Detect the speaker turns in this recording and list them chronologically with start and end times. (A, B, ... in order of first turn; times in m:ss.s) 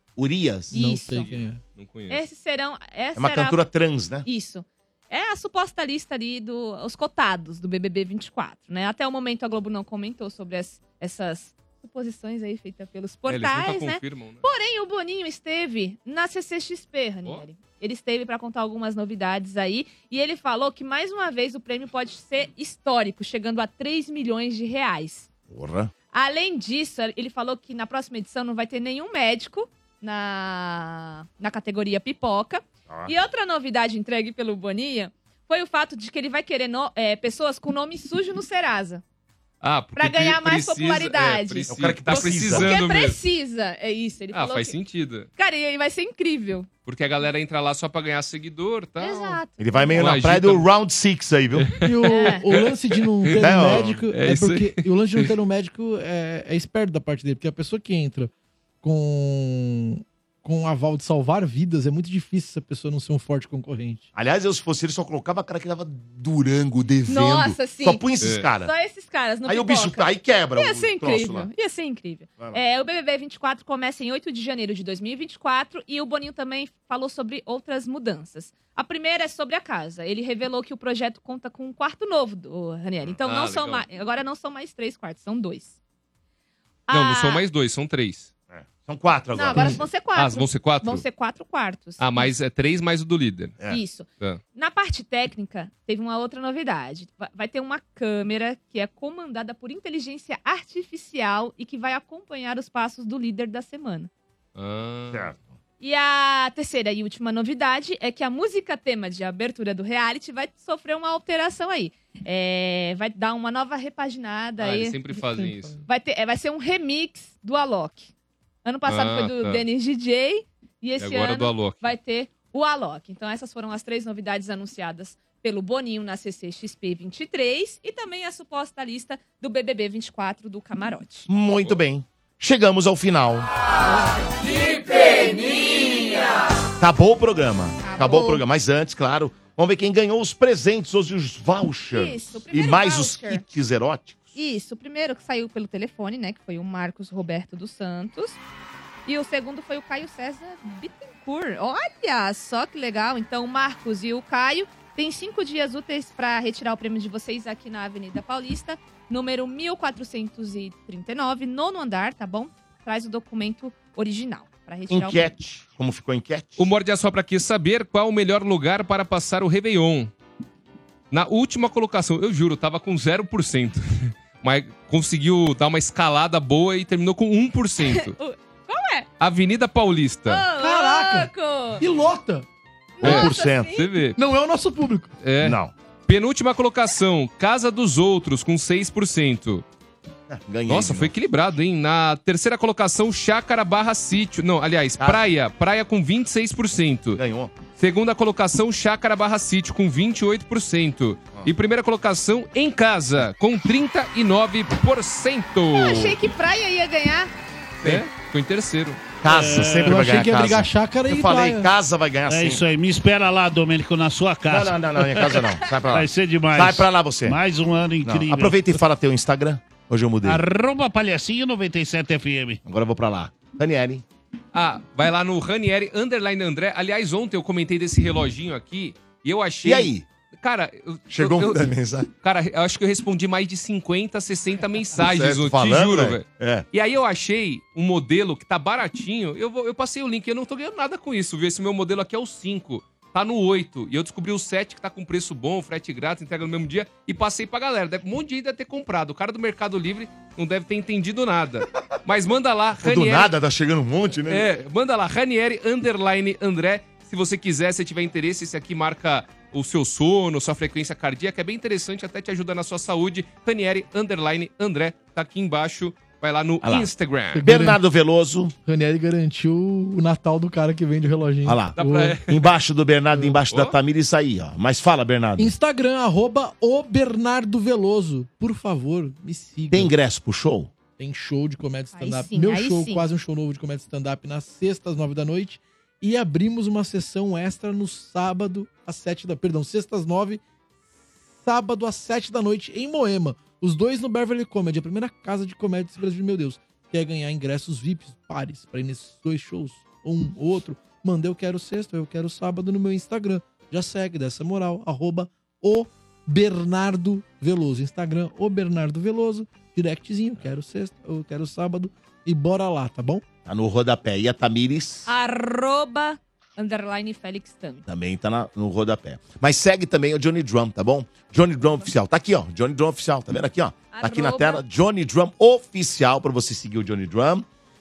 0:00.2-0:00.8 A
0:00.7-0:01.3 B
0:00.7-0:01.6 C
0:01.2-0:02.2 D
0:02.1-0:03.6 B
0:03.2-0:04.3 A
0:04.2-0:25.3 B
0:13.3-0:14.4 D
0:25.5-0:25.9 A
0:26.1-0:39.0 B
0:32.9-0:33.1 A
0:39.6-0:43.2 D
0:40.0-0:44.7 B
0:41.7-0:42.8 A
0:44.3-0:45.3 D
0:45.4-0:46.7 B
0:46.8-0:49.4 D
0:49.0-0:50.2 B
0:49.6-0:51.7 A
0:50.0-0:50.7 D
0:51.6-0:52.6 D
0:51.8-0:58.3 C
0:52.1-0:52.5 B
0:53.3-0:55.3 D
0:53.4-0:54.0 A
0:58.8-1:04.1 C
1:04.1-1:08.7 A
1:07.1-1:08.0 B
1:08.2-1:08.5 D
1:08.6-1:25.7 B
1:09.4-1:11.5 A
1:23.2-1:23.9 D
1:26.9-1:27.4 B
1:26.9-1:28.3 D
1:28.5-1:29.9 A
1:29.4-1:32.3 B
1:29.6-1:31.0 D
1:32.0-1:33.6 D
1:33.7-1:44.1 B
1:44.6-1:45.3 D
1:45.1-1:45.6 A
1:45.8-1:55.0 B
1:54.6-1:55.9 D
1:55.4-1:55.8 C
1:55.9-1:58.1 B
1:58.6-2:11.3 B
1:58.9-1:59.6 D
2:01.0-2:01.9 D
2:11.3-2:13.5 A
2:14.9-2:16.2 B
2:16.8-2:24.4 A
2:17.8-2:18.4 B
2:21.9-2:23.4 B
2:24.4-2:28.4 B
2:29.1-2:45.3 B
2:44.9-2:46.7 A
2:46.6-2:50.1 D
2:51.1-2:58.2 D
2:57.9-2:59.1 B
2:59.2-3:00.4 D
3:00.3-3:01.8 B
3:00.6-3:02.5 C
3:03.0-3:03.9 B
3:03.0-3:03.8 A
3:03.0-3:04.2 D
3:04.2-3:05.1 C
3:05.2-3:09.6 D
3:05.4-3:05.7 A
3:10.3-3:11.1 A
3:10.7-3:17.2 D
3:15.0-3:15.2 A
3:17.2-3:17.5 A
3:17.8-3:26.2 D
3:25.7-3:27.3 B
3:27.8-3:29.0 D
3:29.2-3:32.6 A
3:29.3-3:30.0 E
3:29.9-3:31.7 C
3:32.3-3:38.7 E
3:34.5-3:37.4 A
3:38.0-3:40.4 A
3:40.2-3:42.6 E
3:42.6-3:44.0 A
3:44.5-4:13.3 D
3:49.6-3:50.1 A
3:51.1-3:52.1 A
3:55.0-3:56.7 A
4:12.8-4:14.5 A
4:14.3-4:27.6 D
4:26.6-4:28.6 A
4:27.3-4:27.8 C
4:28.7-4:32.2 C
4:31.4-4:35.5 A
4:31.8-4:32.4 D
4:33.1-4:33.4 C
4:35.4-4:39.9 C
4:39.7-4:40.7 A
4:41.0-4:50.4 C
4:41.9-4:43.0 B
4:51.4-5:13.2 C
5:13.4-5:15.1 A
5:15.1-5:17.8 B
5:17.9-5:27.5 A
5:23.9-5:24.6 B